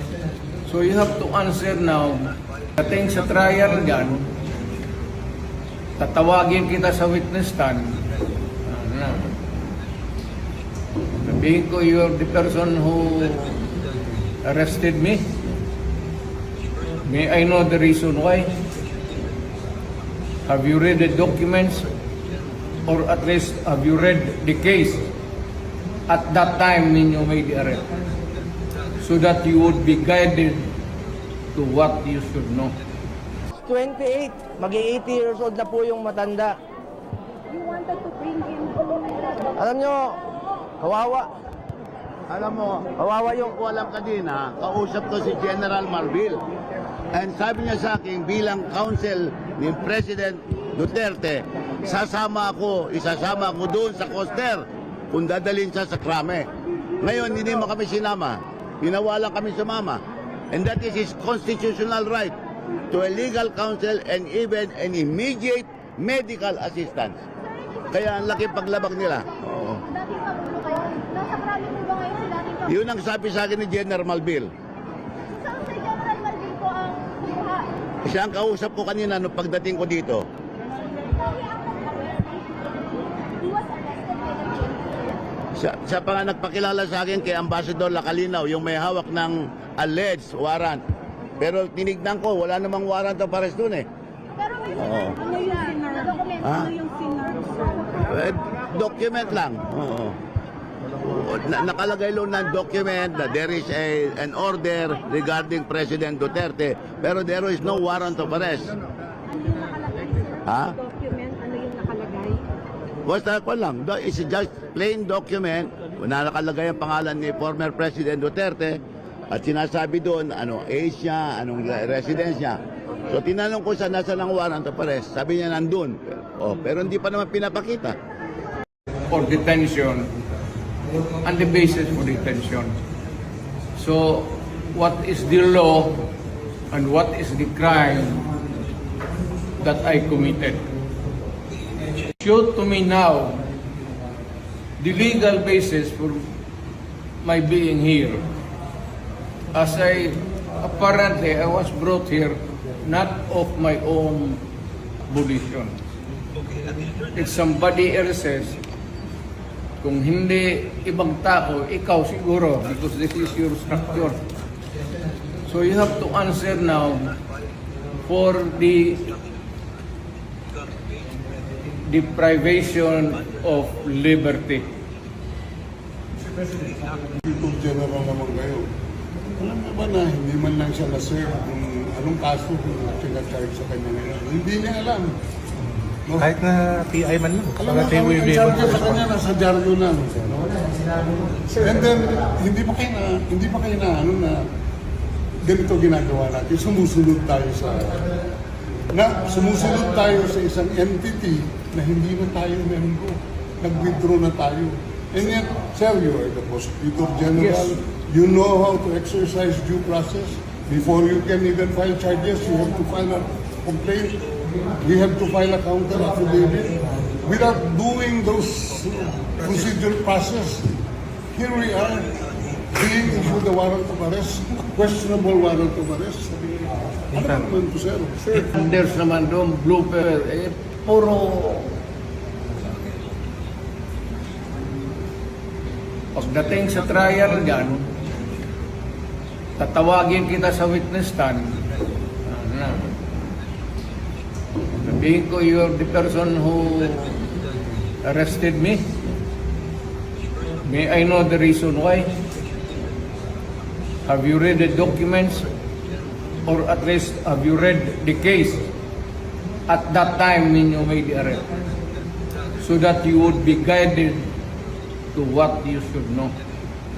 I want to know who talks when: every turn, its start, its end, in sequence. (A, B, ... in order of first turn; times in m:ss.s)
0:00.7-0:04.2 A
0:06.0-0:08.0 A
0:08.7-0:09.4 A
0:11.2-0:13.6 A
0:14.4-0:15.3 A
0:17.0-0:18.5 A
0:20.5-0:21.9 A
0:22.9-0:25.1 A
0:26.1-0:27.9 A
0:29.0-0:30.6 A
0:31.6-0:32.8 A
0:33.6-0:36.6 B
0:37.6-0:39.0 C
0:39.6-0:40.2 B
0:40.8-0:41.3 B
0:42.3-0:46.4 D
0:43.0-0:43.4 B
0:47.1-0:56.5 D
0:57.0-1:00.0 D
1:00.5-1:02.4 D
1:02.9-1:07.2 D
1:07.9-1:09.8 D
1:09.9-1:12.6 C
1:12.6-1:14.5 D
1:15.4-1:17.7 C
1:18.0-1:20.2 D
1:21.1-1:25.2 C
1:25.6-1:30.8 D
1:31.4-1:33.9 D
1:34.4-1:38.0 C
1:34.7-1:35.2 D
1:36.4-1:36.8 D
1:38.0-1:40.2 D
1:41.0-1:48.7 D
1:49.3-1:52.5 C
1:50.5-1:50.8 D
1:53.1-2:08.0 D
2:09.1-2:10.1 A
2:11.2-2:12.8 A
2:13.8-2:16.0 A
2:16.7-2:18.3 A
2:19.6-2:20.6 A
2:22.2-2:23.4 A
2:24.8-2:26.2 A
2:27.2-2:28.2 A
2:29.5-2:34.4 A
2:35.1-2:35.8 A
2:37.2-2:38.6 A
2:39.8-2:44.2 A
2:45.5-2:47.2 A
2:48.0-2:49.2 A
2:51.9-2:54.6 A
2:57.2-2:58.7 E
2:59.4-3:05.1 E
3:06.1-3:06.3 E
3:06.2-3:09.1 F
3:07.6-3:14.4 E
3:15.4-3:18.2 E
3:18.9-3:34.3 E
3:27.4-3:27.7 A
3:34.8-3:40.8 E
3:41.4-3:46.6 E
3:47.1-3:48.4 E
3:48.3-3:51.7 A
3:56.2-3:57.8 A
3:59.6-4:01.6 A
4:02.3-4:02.9 A
4:04.7-4:07.2 A
4:08.0-4:08.9 A
4:10.6-4:12.1 A
4:14.0-4:15.5 A
4:16.5-4:18.7 A
4:19.7-4:21.6 A
4:22.6-4:24.3 A
4:25.1-4:26.4 A